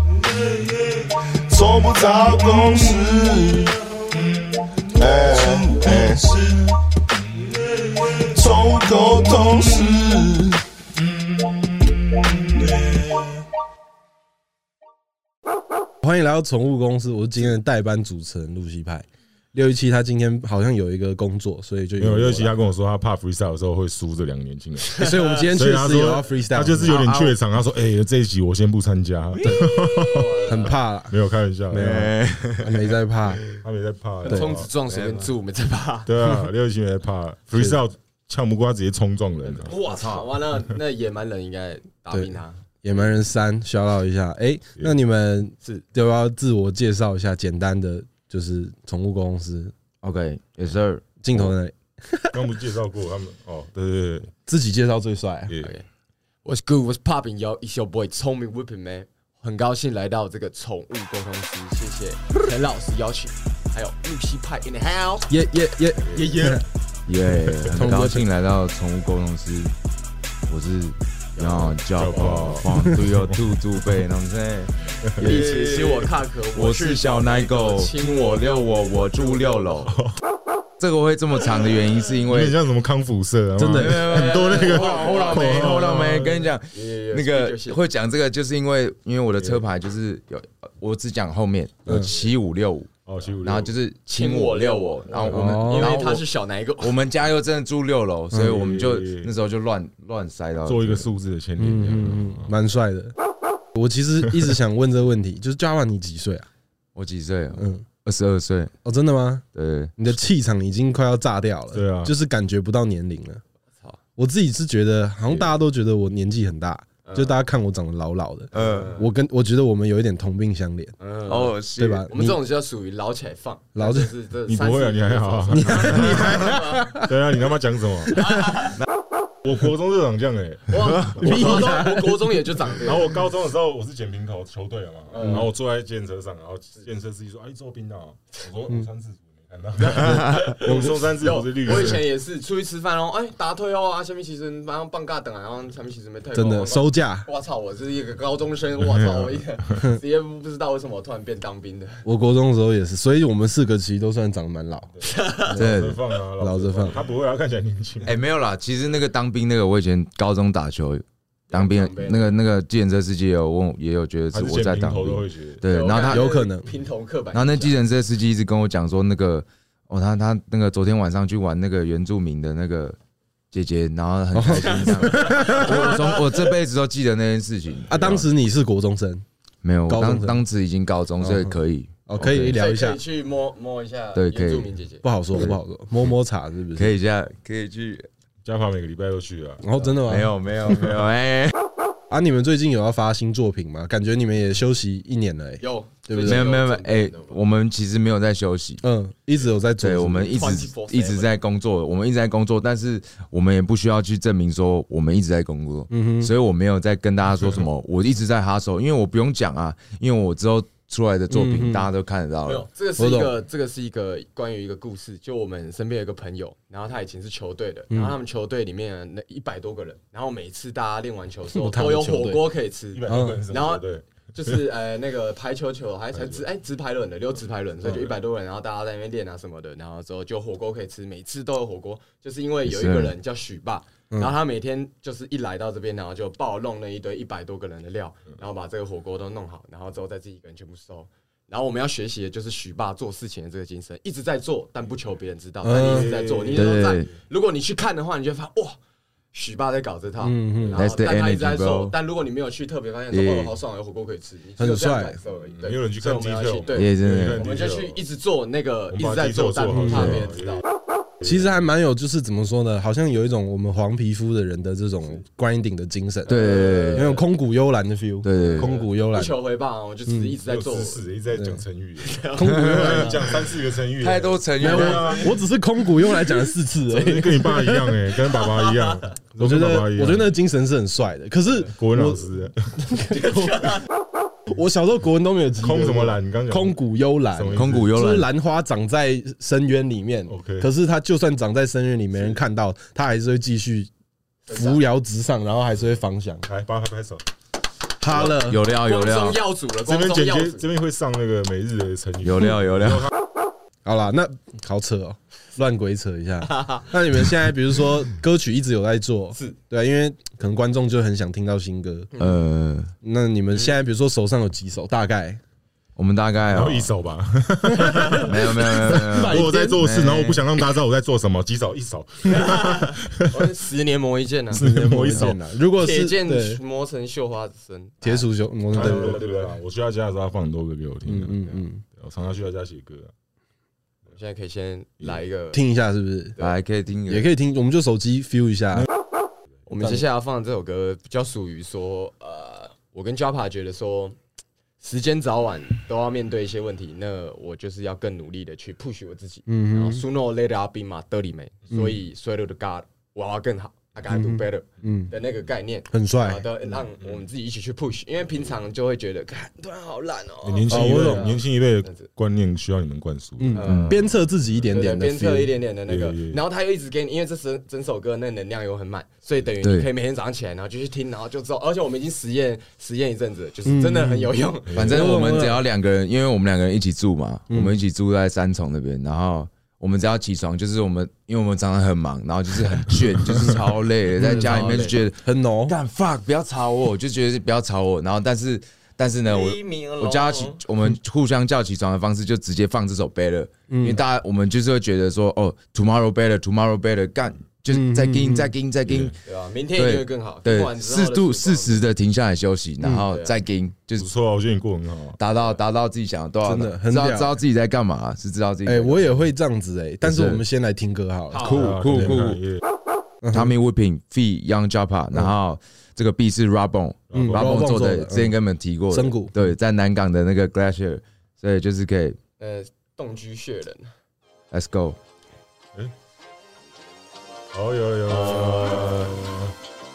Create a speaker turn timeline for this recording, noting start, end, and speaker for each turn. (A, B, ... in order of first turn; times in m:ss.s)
0:01.5-0:03.8 A
0:04.9-0:06.6 A
0:08.2-0:10.6 A
0:12.6-0:13.1 A
0:16.0-0:22.5 B
0:22.0-0:30.4 C
0:24.9-0:27.1 B
0:26.8-0:27.3 D
0:29.9-0:30.8 E
0:30.5-0:31.2 B
0:31.1-0:31.9 C
0:31.7-0:33.4 B
0:31.8-0:32.9 D
0:33.6-0:34.7 C
0:34.2-0:34.6 B
0:34.2-0:36.1 E
0:34.9-0:35.3 D
0:36.0-0:39.7 C
0:39.4-0:43.1 E
0:39.7-0:40.3 D
0:42.1-0:49.7 B
0:50.0-0:51.0 D
0:51.2-0:52.5 B
0:52.3-0:54.3 C
0:54.4-0:55.5 B
0:55.6-0:55.8 E
0:56.4-1:05.3 E
1:05.3-1:06.6 B
1:06.1-1:06.6 E
1:07.1-1:09.7 D
1:07.7-1:08.3 B
1:10.5-1:19.9 D
1:11.4-1:12.2 E
1:12.0-1:13.4 C
1:15.1-1:15.4 C
1:15.2-1:19.9 E
1:20.8-1:22.6 D
1:22.3-1:26.4 C
1:23.6-1:24.1 B
1:23.7-1:32.9 D
1:24.2-1:25.6 E
1:26.7-1:27.8 E
1:33.0-1:33.7 C
1:33.4-1:36.2 D
1:34.1-1:36.9 E
1:35.1-1:35.6 C
1:35.3-1:36.0 B
1:36.8-1:41.1 D
1:38.4-1:39.3 C
1:40.6-1:42.5 C
1:41.6-1:43.1 B
1:43.7-1:46.5 B
1:46.9-1:48.7 D
1:47.6-1:47.8 B
1:48.8-1:49.4 B
1:49.5-1:50.0 D
1:50.0-1:53.4 B
1:51.7-1:52.1 C
1:54.2-2:00.9 B
1:57.0-1:57.4 E
1:58.5-1:59.1 E
1:58.5-1:58.9 D
2:01.0-2:01.6 E
2:01.3-2:02.1 D
2:01.8-2:02.4 B
2:02.1-2:06.9 E
2:03.7-2:04.1 B
2:04.5-2:08.2 C
2:05.6-2:07.1 B
2:08.2-2:08.7 E
2:09.4-2:11.7 C
2:10.7-2:13.1 E
2:11.2-2:12.2 B
2:12.8-2:22.0 C
2:15.1-2:15.4 E
2:19.8-2:32.0 E
2:20.6-2:21.0 B
2:26.3-2:27.3 B
2:28.8-2:29.4 C
2:32.0-2:34.9 B
2:35.0-2:35.6 E
2:35.5-2:37.0 B
2:35.5-2:38.1 C
2:35.6-2:36.0 D
2:38.0-2:46.2 D
2:41.5-2:42.4 E
2:44.3-2:45.6 C
2:45.6-2:47.8 E
2:46.1-2:46.7 B
2:47.3-2:53.0 D
2:53.5-2:58.0 D
2:54.3-2:56.0 B
2:55.2-2:56.0 E
2:57.9-2:59.2 B
2:59.6-3:02.6 D
2:59.9-3:00.4 B
3:01.2-3:01.5 B
3:02.1-3:03.0 B
3:02.5-3:05.0 E
3:04.2-3:04.7 D
3:05.0-3:06.9 B
3:06.8-3:08.1 D
3:08.4-3:09.9 C
3:09.6-3:10.9 B
3:10.0-3:11.5 D
3:12.1-3:16.5 B
3:15.6-3:17.4 E
3:16.2-3:18.8 D
3:18.8-3:20.5 B
3:19.8-3:32.7 D
3:20.3-3:21.3 E
3:25.9-3:26.3 B
3:31.3-3:31.9 B
3:32.4-4:08.8 E
3:33.0-3:33.3 B
3:41.5-3:42.4 B
3:42.9-3:44.0 C
3:43.1-3:43.4 B
3:52.7-3:53.1 D
4:05.6-4:06.2 B
4:05.7-4:06.8 C
4:06.5-4:07.1 D
4:09.3-4:20.6 E
4:10.2-4:10.8 B
4:10.8-4:11.9 D
4:13.1-4:13.5 D
4:14.6-4:15.2 B
4:15.5-4:18.0 C
4:16.7-4:17.4 D
4:18.9-4:20.6 C
4:19.8-4:20.2 B
4:21.2-4:26.4 B
4:26.3-4:27.2 E
4:26.3-4:27.1 D
4:26.9-4:29.4 B
4:28.2-4:28.7 D
4:28.4-4:31.1 E
4:30.1-4:30.3 B
4:30.4-4:35.3 C
4:31.3-4:31.6 B
4:32.0-4:33.2 E
4:32.4-4:33.2 B
4:32.6-4:33.0 D
4:34.0-4:35.2 D
4:34.6-4:38.0 B
4:36.9-4:40.3 C
4:38.4-4:39.1 E
4:39.4-4:42.2 B
4:41.7-4:42.5 C
4:42.9-4:43.5 B
4:43.2-4:43.7 E
4:44.4-4:53.9 B
4:45.6-4:46.8 C
4:47.3-4:47.9 C
4:47.5-4:48.3 D
4:50.3-4:50.7 C
4:54.5-4:54.8 E
4:54.5-4:56.4 B
4:56.4-4:57.2 C
4:58.0-4:58.6 B
4:58.1-4:59.4 D
4:58.1-5:00.7 E
4:59.8-5:03.1 C
5:02.2-5:03.1 D
5:03.8-5:12.1 B
5:06.5-5:06.8 E
5:12.2-5:12.9 D
5:13.0-5:15.4 B
5:16.0-5:16.9 D
5:16.5-5:23.4 C
5:17.7-5:19.8 B
5:18.2-5:20.4 D
5:22.2-5:24.6 E
5:24.5-5:25.4 C
5:24.5-5:26.6 B
5:25.8-5:29.5 E
5:28.0-5:29.2 B
5:28.7-5:33.1 C
5:31.0-5:31.8 B
5:34.1-5:35.6 E
5:35.5-5:36.4 B
5:36.4-5:37.3 D
5:37.1-5:38.9 B
5:39.7-5:44.2 E
5:44.8-6:02.1 E
5:49.5-5:50.0 B
5:54.1-5:55.1 B
5:55.9-5:56.4 B
6:00.4-6:03.6 C
6:00.7-6:01.3 B
6:03.4-6:05.5 B
6:03.5-6:04.1 E
6:04.7-6:14.7 E
6:05.9-6:06.4 C
6:09.6-6:09.9 D
6:13.6-6:15.6 B
6:14.7-6:15.1 C
6:14.7-6:39.1 D
6:17.5-6:17.8 B
6:24.2-6:25.8 B
6:24.3-6:25.0 E
6:29.2-6:30.6 E
6:33.7-6:34.0 B
6:37.7-6:38.5 B
6:38.9-6:39.1 C
6:39.2-6:41.9 E
6:39.8-6:44.1 D
6:43.1-6:43.3 E
6:44.0-6:45.2 C
6:45.2-6:49.0 D
6:46.4-6:47.4 B
6:48.6-6:52.2 B
6:50.0-6:50.4 D
6:51.3-6:51.8 E
6:51.4-6:52.4 D
6:51.5-6:52.6 C
6:53.2-6:53.5 B
6:53.3-7:02.2 D
6:57.1-6:57.6 C
6:57.1-6:58.4 B
6:58.9-6:59.3 B
7:02.4-7:03.9 E
7:04.5-7:05.0 D
7:07.5-7:09.5 C
7:08.1-7:09.2 E